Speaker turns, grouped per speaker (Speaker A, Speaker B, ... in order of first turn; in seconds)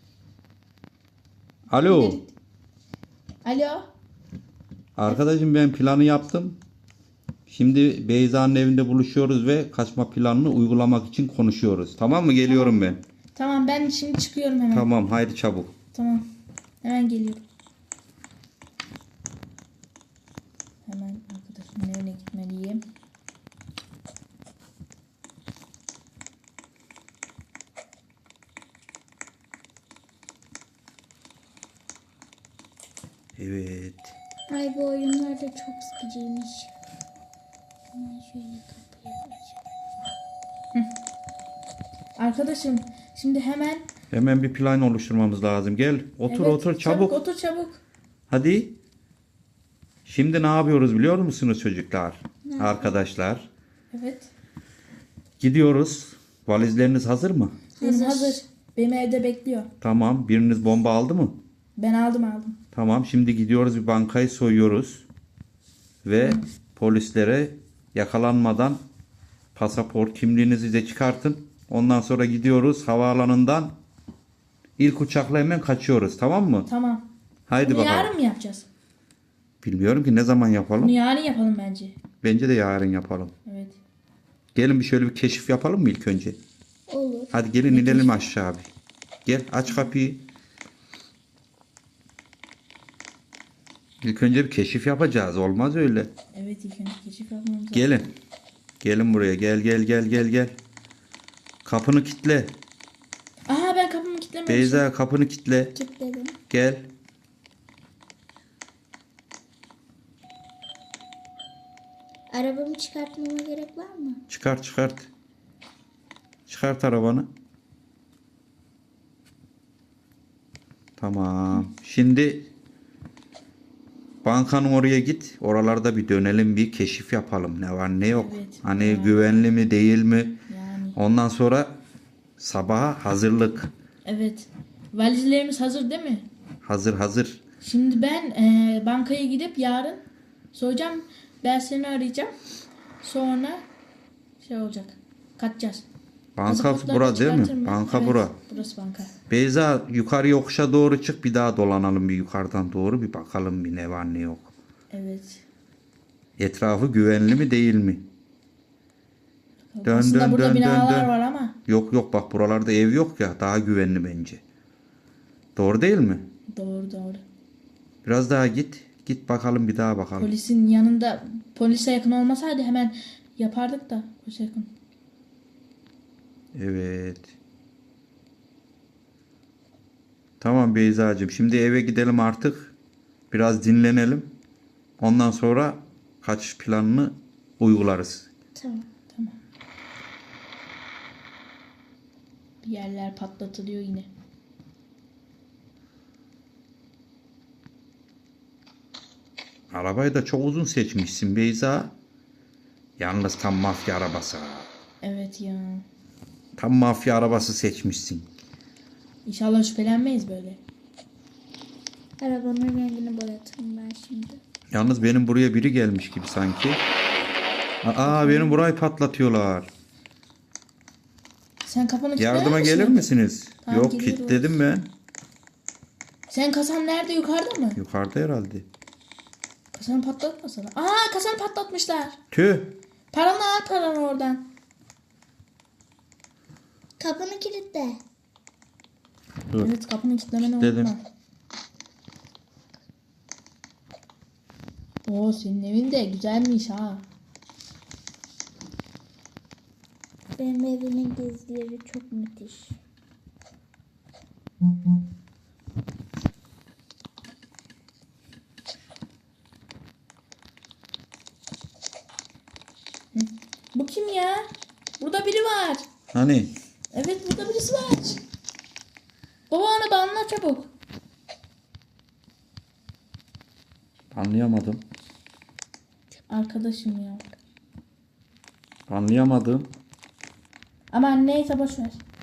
Speaker A: 1.7-2.2, 5.0-6.6, 7.5-13.0, 14.7-15.7, 33.4-34.1, 44.1-47.2, 48.3-48.7, 50.0-53.5, 55.4-57.5, 59.8-61.4, 62.7-65.1, 66.0-68.8, 69.5-73.8, 74.8-76.7, 77.5-78.1, 79.6-80.9, 82.2-83.3, 84.5-86.4, 87.3-88.7, 89.2-90.2, 94.0-96.1, 97.7-98.1, 98.8-100.5, 101.7-102.6, 104.5-105.7, 106.5-106.8, 114.3-115.1, 116.5-117.3, 121.0-122.5, 124.2-130.3, 130.9-131.8, 132.4-133.7, 136.6-137.4, 146.4-148.3, 149.3-154.5, 156.4-158.0, 159.8-161.1, 161.7-164.4, 165.6-166.3, 168.0-170.3, 176.5-177.3, 180.4-182.7, 183.3-184.3, 185.0-188.3, 199.7-201.9, 203.0-204.7, 206.6-208.3, 214.7-216.8, 217.8-219.7, 222.2-224.9, 227.8-228.7, 232.3-232.8, 240.4-240.9, 266.1-266.5, 274.1-274.8, 278.9-279.7
Speaker B: 1.8-2.3, 3.5-3.8, 12.5-12.8, 13.4-14.9, 15.9-16.2, 16.8-17.4, 20.9-22.8, 42.2-43.8, 46.3-47.8, 53.9-54.3, 57.8-59.7, 61.8-62.6, 66.2-66.4, 76.7-77.0, 77.6-78.7, 80.8-81.9, 83.5-83.8, 87.7-88.2, 96.3-98.0, 103.5-104.8, 128.1-129.5, 130.5-131.0, 134.0-136.3, 137.6-140.0, 140.5-142.3, 143.0-143.6, 144.4-145.8, 146.4-149.1, 154.9-155.4, 159.7-161.5, 166.5-167.2, 170.2-174.7, 192.6-194.1, 205.0-205.8, 209.2-210.6, 218.0-218.6, 221.6-223.1, 223.6-224.5, 226.3-227.8, 229.7-232.2, 233.1-234.5, 239.6-241.0, 245.1-247.0, 263.1-264.4, 265.0-265.8, 266.9-268.2, 269.5-270.7, 276.3-277.3, 280.9-282.0
Speaker C: 34.5-36.7, 37.9-39.6, 52.5-53.0, 57.8-58.4, 86.9-87.3, 105.8-106.4, 112.3-114.2, 188.5-188.9, 212.2-214.4, 237.0-238.0, 250.4-252.8